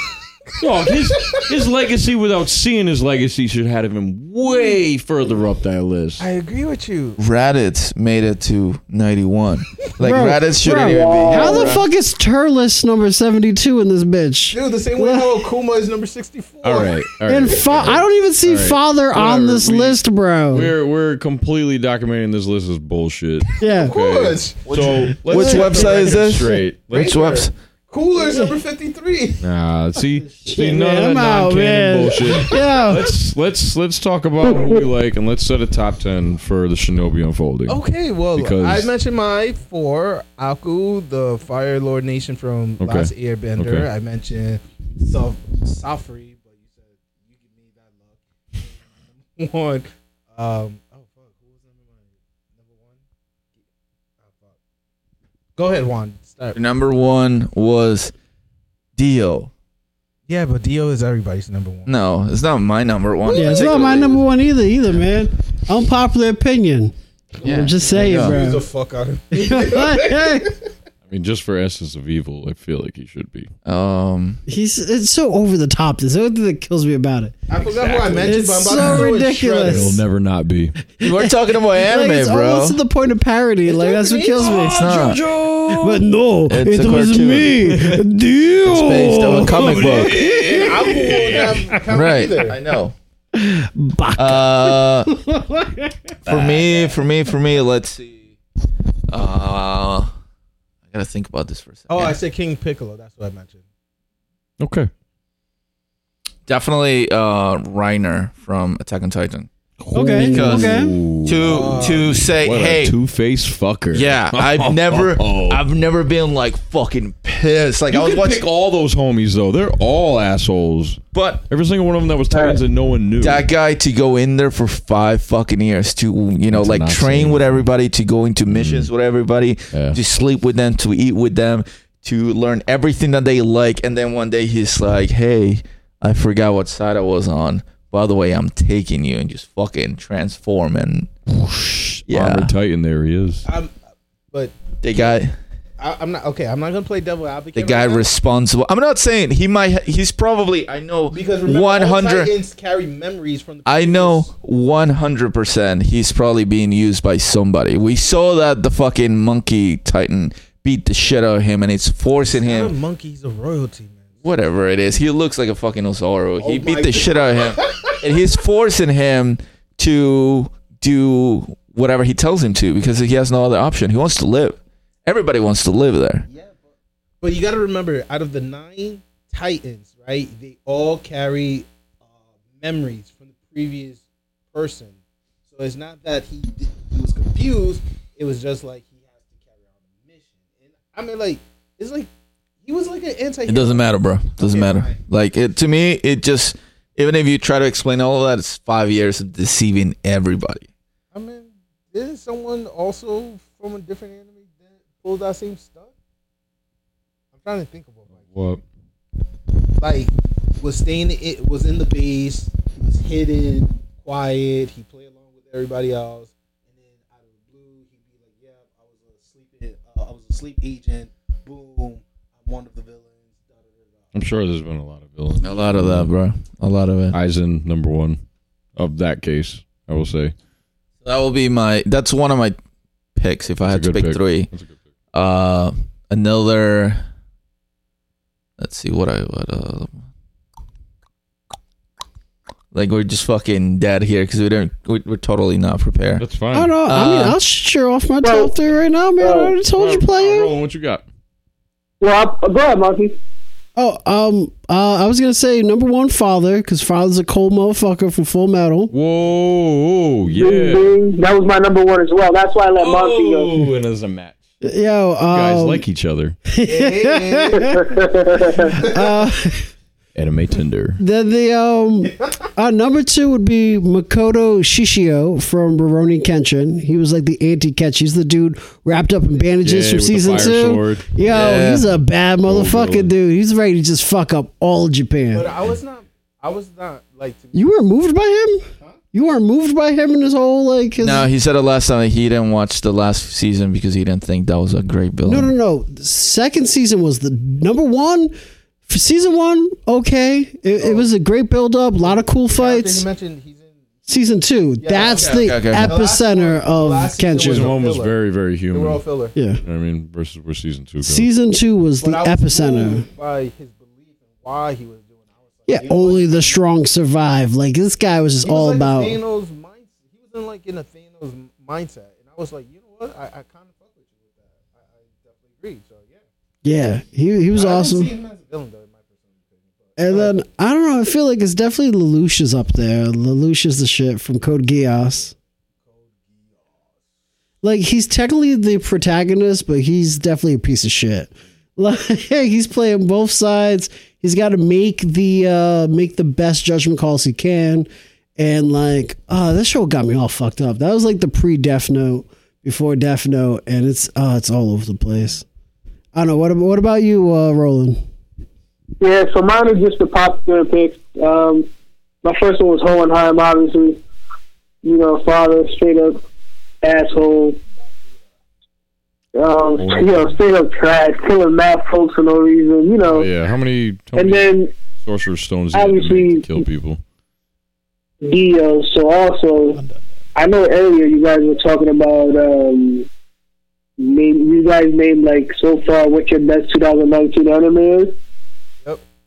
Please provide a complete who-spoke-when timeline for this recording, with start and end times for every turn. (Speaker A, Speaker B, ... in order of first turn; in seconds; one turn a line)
Speaker A: 0.6-6.2
Speaker B: 1.1-1.5
Speaker B: 6.2-7.2
Speaker C: 7.2-11.8
Speaker D: 10.0-15.4
Speaker E: 10.8-11.8
Speaker B: 14.5-17.0
Speaker A: 16.6-20.0
Speaker D: 17.3-20.7
Speaker A: 20.5-27.1
Speaker D: 23.6-23.9
Speaker B: 23.6-25.0
Speaker C: 24.7-27.5
Speaker D: 25.3-25.8
Speaker B: 25.5-26.3
Speaker B: 26.9-29.4
Speaker D: 28.2-28.5
Speaker A: 29.4-37.8
Speaker D: 30.3-33.1
Speaker B: 37.7-53.0
Speaker A: 38.3-38.9
Speaker A: 42.8-43.9
Speaker B: 54.2-54.5
Speaker B: 55.6-56.6
Speaker C: 56.5-58.1
Speaker C: 59.0-59.5
Speaker B: 60.3-61.9
Speaker C: 61.9-64.2
Speaker B: 63.2-64.2
Speaker D: 63.3-68.6
Speaker C: 67.4-68.4
Speaker B: 67.9-70.6
Speaker D: 69.3-70.5
Speaker A: 71.1-73.5
Speaker C: 73.6-74.4
Speaker D: 74.5-77.4
Speaker B: 77.5-80.0
Speaker A: 77.7-79.0
Speaker D: 78.2-80.0
Speaker A: 79.6-80.8
Speaker C: 81.0-82.8
Speaker D: 81.0-84.9
Speaker B: 83.7-84.6
Speaker A: 84.4-86.1
Speaker C: 84.6-85.2
Speaker D: 85.7-91.5
Speaker C: 86.5-87.6
Speaker A: 87.7-88.0
Speaker C: 88.6-90.2
Speaker A: 89.3-91.6
Speaker B: 90.4-92.6
Speaker C: 91.9-93.0
Speaker D: 93.3-95.9
Speaker C: 94.2-95.1
Speaker C: 96.2-98.3
Speaker A: 96.3-96.7
Speaker C: 99.1-100.1
Speaker C: 100.9-102.2
Speaker B: 101.9-103.6
Speaker A: 104.6-104.9
Speaker C: 106.5-109.5
Speaker A: 109.8-115.6
Speaker D: 109.9-111.0
Speaker C: 110.2-112.9
Speaker B: 111.4-112.1
Speaker C: 113.9-118.4
Speaker A: 117.9-123.4
Speaker C: 121.1-121.4
Speaker C: 123.2-141.1
Speaker A: 126.5-127.5
Speaker A: 128.5-128.9
Speaker A: 129.7-130.0
Speaker A: 141.3-143.4
Speaker C: 142.1-142.5
Speaker B: 143.4-143.7
Speaker B: 144.3-145.2
Speaker C: 144.8-145.3
Speaker B: 145.8-148.1
Speaker C: 147.5-152.3
Speaker B: 151.1-154.3
Speaker C: 153.7-162.7
Speaker B: 162.3-164.2
Speaker C: 164.2-176.2
Speaker B: 166.4-168.0
Speaker B: 176.3-176.7
Speaker B: 177.2-181.7
Speaker B: 182.2-192.1
Speaker B: 192.6-195.0
Speaker C: 193.5-200.7
Speaker B: 201.1-205.9
Speaker B: 207.3-208.2
Speaker A: 208.3-208.6
Speaker B: 209.8-224.1
Speaker A: 224.1-226.1
Speaker C: 225.4-227.2
Speaker A: 227.1-228.2
Speaker A: 228.8-230.3
Speaker C: 231.0-232.6
Speaker C: 233.2-234.5
Speaker A: 233.7-234.7
Speaker C: 235.1-237.0
Speaker C: 238.6-240.0
Speaker C: 242.7-246.2
Speaker A: 246.2-246.7
Speaker D: 246.5-250.5
Speaker C: 246.8-247.4
Speaker E: 248.2-248.5
Speaker E: 249.2-249.5
Speaker A: 249.7-251.0
Speaker E: 252.0-253.1
Speaker D: 253.8-258.9
Speaker A: 258.9-260.9
Speaker E: 260.3-263.6
Speaker A: 262.8-264.4
Speaker D: 264.6-265.8
Speaker A: 265.3-266.4
Speaker D: 266.5-267.8
Speaker B: 266.6-267.8
Speaker E: 267.6-268.7
Speaker B: 268.7-269.1
Speaker D: 268.8-269.7
Speaker A: 270.1-271.0
Speaker D: 271.0-285.5
Speaker A: 279.6-281.1
Speaker C: 281.2-281.9
Speaker A: 282.4-283.1
Speaker B: 285.3-287.6
Speaker D: 287.5-291.3
Speaker C: 291.0-295.5
Speaker D: 295.2-298.3
Speaker D: 298.9-303.1
Speaker B: 300.8-301.1
Speaker B: 302.0-303.8
Speaker D: 304.1-307.7
Speaker B: 304.8-308.2
Speaker C: 305.2-305.9
Speaker A: 307.4-309.0
Speaker B: 308.7-309.3
Speaker D: 309.3-309.6
Speaker A: 309.6-311.3
Speaker D: 311.0-313.1
Speaker B: 312.0-316.6
Speaker D: 315.7-319.2
Speaker B: 318.4-326.3
Speaker D: 326.6-328.1
Speaker B: 327.5-330.3
Speaker D: 330.0-335.3
Speaker B: 335.9-337.0
Speaker D: 337.6-355.4
Speaker D: 356.1-358.0
Speaker E: 359.0-361.7
Speaker E: 362.2-364.0
Speaker E: 364.8-366.2
Speaker E: 366.8-367.6
Speaker E: 369.3-373.3
Speaker A: 369.8-370.4
Speaker A: 373.1-377.0
Speaker E: 374.1-374.7
Speaker E: 375.7-376.6
Speaker E: 378.2-379.8
Speaker E: 380.4-383.1
Speaker E: 384.0-388.1